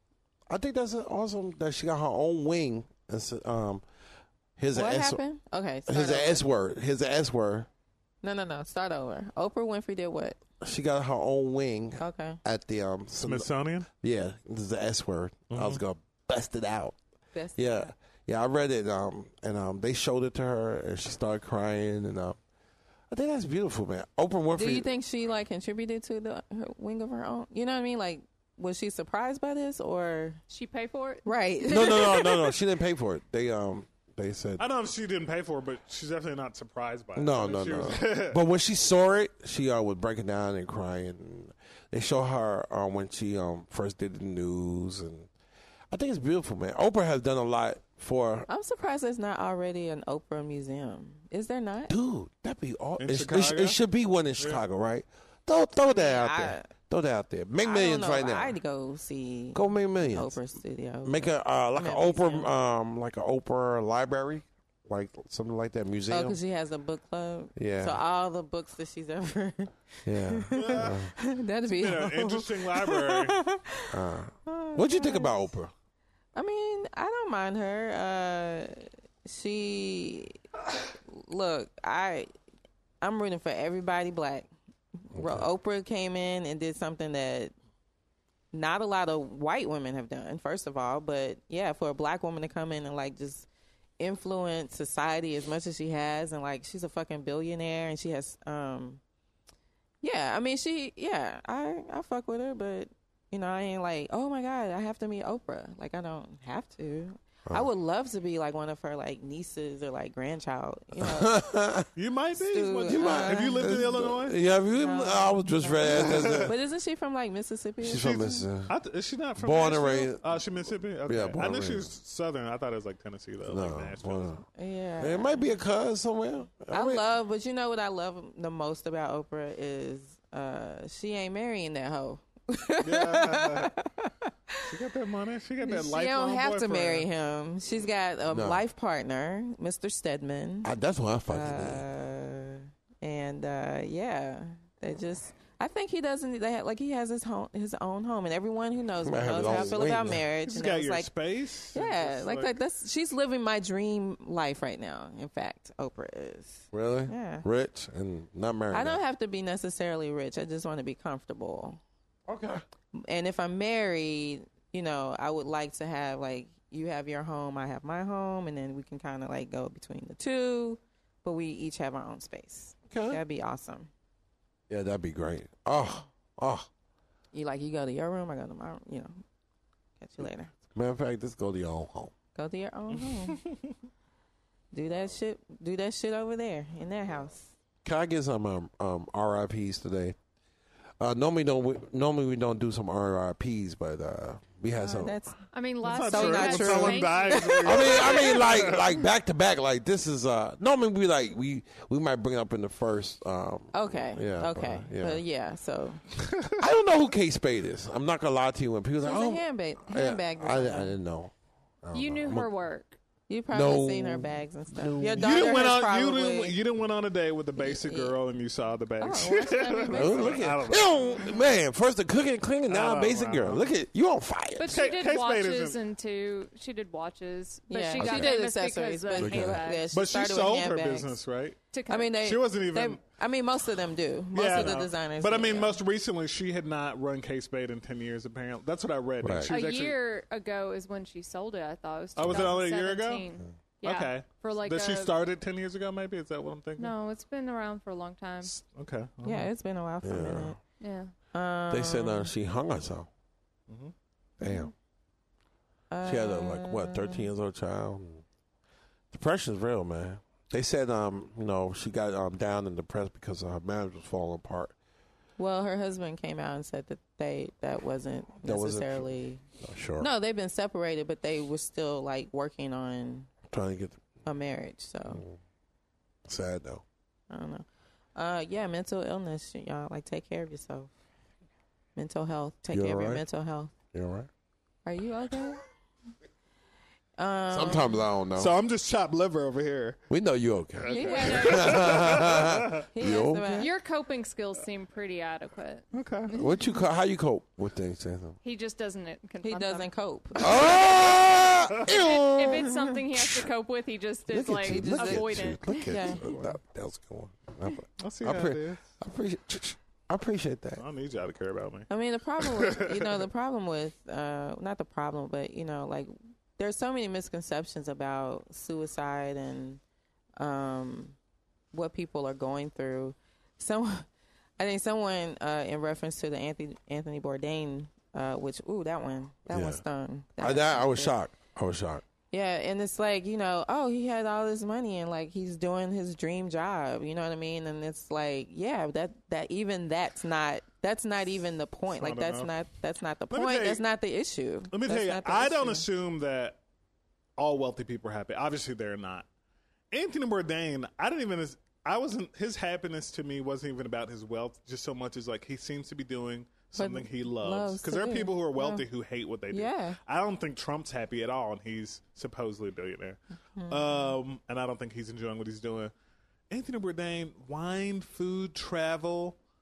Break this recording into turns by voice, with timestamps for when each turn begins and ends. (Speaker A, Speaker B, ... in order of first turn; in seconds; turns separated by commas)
Speaker A: 0.5-3.8, Speaker A: 4.6-5.2, Speaker B: 4.7-6.4, Speaker A: 5.9-7.7, Speaker B: 8.2-10.4, Speaker A: 10.6-17.0, Speaker B: 12.0-12.4, Speaker C: 13.2-13.9, Speaker C: 15.5-15.8, Speaker B: 17.3-17.9, Speaker A: 17.6-22.4, Speaker A: 23.1-24.9, Speaker B: 24.5-30.4, Speaker D: 30.5-31.3, Speaker B: 31.2-32.5, Speaker A: 31.7-34.6, Speaker C: 34.6-38.4, Speaker A: 37.1-45.3, Speaker A: 45.9-48.5, Speaker B: 48.5-51.9, Speaker A: 51.9-58.6, Speaker C: 53.0-53.8, Speaker B: 55.9-56.7, Speaker B: 57.6-62.5, Speaker A: 59.5-60.4, Speaker A: 61.0-66.4, Speaker B: 66.1-75.5, Speaker A: 67.6-68.0, Speaker A: 70.0-71.1, Speaker C: 70.5-71.1, Speaker C: 71.7-73.4, Speaker A: 73.9-75.7, Speaker B: 76.3-80.4, Speaker B: 81.0-82.3, Speaker B: 83.0-84.5, Speaker B: 85.0-87.5, Speaker A: 85.2-85.5, Speaker B: 88.5-93.5, Speaker B: 94.0-99.0, Speaker B: 100.0-111.5, Speaker A: 111.0-111.9, Speaker C: 112.0-114.4, Speaker B: 112.4-113.9, Speaker A: 112.9-116.5, Speaker B: 114.7-118.4, Speaker C: 116.0-116.5, Speaker A: 117.8-118.7, Speaker C: 118.0-124.4, Speaker A: 119.4-120.4, Speaker A: 121.1-121.9, Speaker A: 123.5-124.4, Speaker B: 124.6-125.5, Speaker A: 125.0-127.0, Speaker B: 126.7-134.7, Speaker C: 132.8-133.7, Speaker C: 134.7-137.1, Speaker B: 135.6-140.7, Speaker A: 138.3-138.6, Speaker A: 140.6-141.8, Speaker B: 141.3-151.1, Speaker A: 149.0-150.2, Speaker C: 149.4-149.8, Speaker C: 150.4-152.5, Speaker B: 151.7-157.5, Speaker A: 156.7-159.0, Speaker B: 158.7-161.8, Speaker A: 162.3-162.6, Speaker B: 162.9-173.9, Speaker A: 172.9-173.2, Speaker A: 174.7-176.7, Speaker B: 177.3-179.2, Speaker B: 180.0-180.5, Speaker A: 180.7-182.1, Speaker B: 182.3-183.4, Speaker C: 183.1-183.6, Speaker B: 184.7-187.5, Speaker A: 187.8-190.2, Speaker A: 191.0-195.2, Speaker B: 194.7-197.6, Speaker D: 195.5-198.8, Speaker C: 195.8-198.9, Speaker A: 197.6-205.2, Speaker B: 203.7-206.0, Speaker A: 206.6-212.5, Speaker B: 209.0-210.9, Speaker D: 211.9-213.0, Speaker B: 213.3-216.6, Speaker A: 213.5-215.6, Speaker C: 215.2-221.1, Speaker B: 217.6-218.2, Speaker B: 219.0-220.3, Speaker D: 219.1-220.4, Speaker A: 219.9-224.8, Speaker C: 222.7-223.7, Speaker D: 224.6-229.9, Speaker C: 224.7-225.8, Speaker B: 227.7-231.2, Speaker A: 228.0-228.3, Speaker A: 229.2-229.6, Speaker C: 229.9-231.6, Speaker D: 231.7-232.2, Speaker B: 231.9-235.8, Speaker C: 232.2-233.0, Speaker C: 234.3-240.0, Speaker A: 239.2-239.5, Speaker D: 239.5-245.1, Speaker C: 242.2-243.2, Speaker C: 243.8-246.9, Speaker D: 246.8-248.6, Speaker C: 248.4-249.5, Speaker B: 249.2-250.6, Speaker A: 250.0-250.6, Speaker D: 250.8-251.1, Speaker B: 251.3-252.3, Speaker A: 251.7-253.1, Speaker C: 253.7-253.9, Speaker A: 254.4-254.7, Speaker B: 254.4-254.7, Speaker B: 255.9-257.3, Speaker A: 256.0-258.2, Speaker A: 259.1-264.7, Speaker B: 265.4-269.4, Speaker A: 268.4-270.1, Speaker B: 270.0-273.3, Speaker A: 273.5-274.0, Speaker B: 274.3-275.2, Speaker A: 275.1-275.4, Speaker A: 276.3-276.8, Speaker B: 277.3-280.9, Speaker B: 282.0-283.7, Speaker A: 282.7-283.2, Speaker A: 283.9-284.3, Speaker B: 284.9-285.6, Speaker B: 287.2-288.0, Speaker A: 287.5-288.5, Speaker C: 288.4-290.0, Speaker A: 290.1-293.6, Speaker C: 290.8-292.8, Speaker D: 290.9-292.2, Speaker B: 290.9-291.8, Speaker B: 292.8-293.7, Speaker D: 293.5-296.5, Speaker C: 295.9-296.3, Speaker A: 296.3-298.4, Speaker D: 298.4-299.9, Speaker B: 299.4-300.8, Speaker A: 300.4-303.5, Speaker D: 300.4-301.1, Speaker D: 301.9-306.2, Speaker A: 304.3-310.8, Speaker B: 304.7-306.2, Speaker C: 308.0-308.9, Speaker C: 310.8-313.3, Speaker B: 311.9-319.8, Speaker B: 320.4-321.2, Speaker B: 321.7-324.1, Speaker B: 324.6-331.1, Speaker A: 329.5-329.8, Speaker A: 330.4-332.0, Speaker B: 332.3-345.9, Speaker C: 341.9-342.5, Speaker C: 343.3-343.8, Speaker C: 344.7-346.6, Speaker C: 347.4-349.3, Speaker C: 349.9-363.2, Speaker B: 356.8-358.9, Speaker B: 359.5-360.0, Speaker B: 363.6-364.1, Speaker C: 363.7-365.9, Speaker C: 366.5-369.4